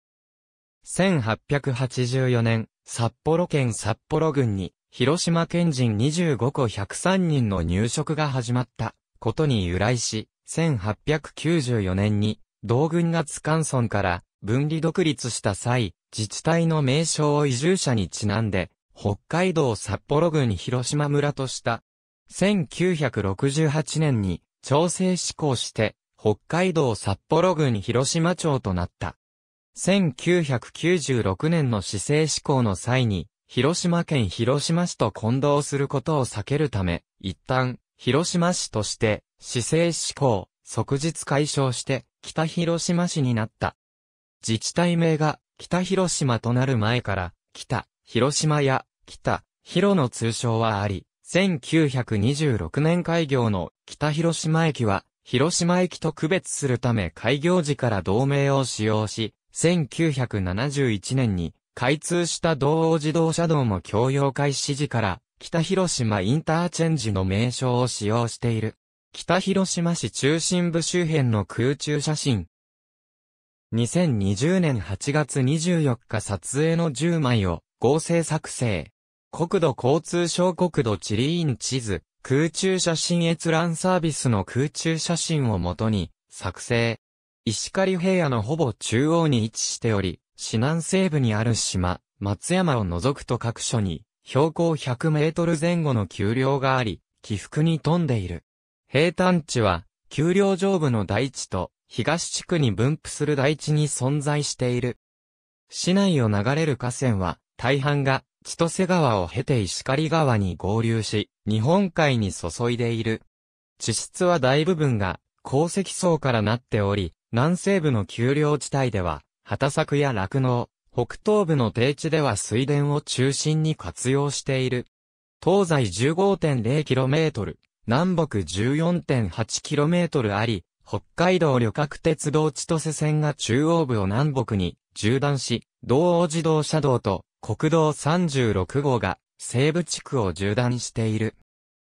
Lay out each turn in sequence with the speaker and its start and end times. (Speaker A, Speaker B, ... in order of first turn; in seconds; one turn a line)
Speaker A: 0.8-29.2
Speaker A: 29.8-43.8
Speaker A: 44.4-72.5
Speaker A: 73.7-105.0
Speaker A: 105.7-113.2
Speaker A: 113.8-124.9
Speaker A: 125.4-141.4